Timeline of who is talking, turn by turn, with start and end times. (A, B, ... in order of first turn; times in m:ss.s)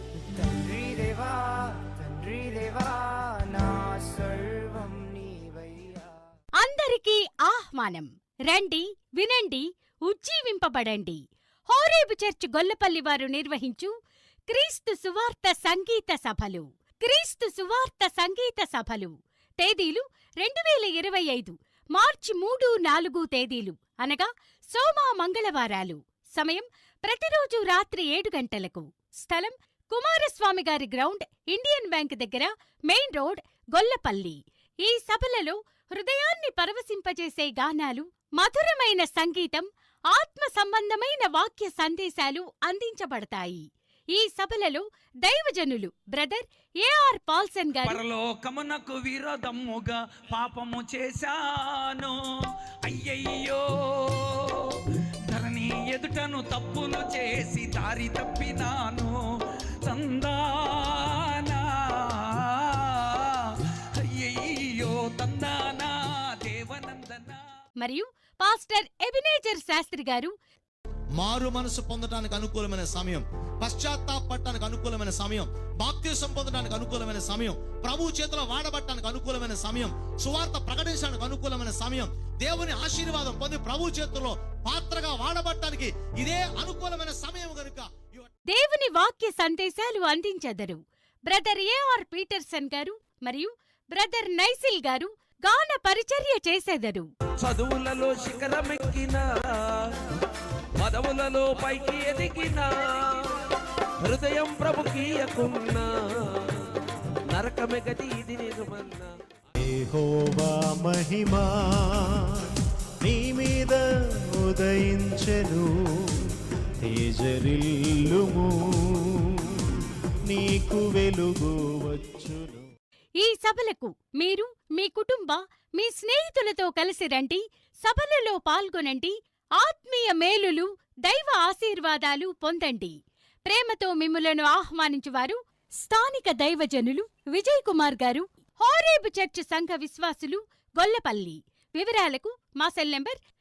0:00.3-0:06.1 A
0:06.6-0:13.9 B
0:14.5-0:48.0 B
0:47.8-0:52.1 C
0:52.8-0:54.8 C
0:55.3-0:59.1 C
0:59.9-1:01.6 C
1:02.3-1:03.5 C
1:04.0-1:07.4 C
1:07.8-1:10.3 B
1:11.2-1:28.3 D
1:28.5-1:37.1 B
1:37.4-1:39.8 E
1:40.8-1:43.3 E
1:44.0-1:46.0 E
1:47.3-1:49.1 E
1:49.6-1:52.5 F
1:53.0-1:53.8 F
1:54.4-1:56.2 F
1:56.8-1:59.6 F
2:00.3-2:02.7 F
2:03.2-2:23.2 B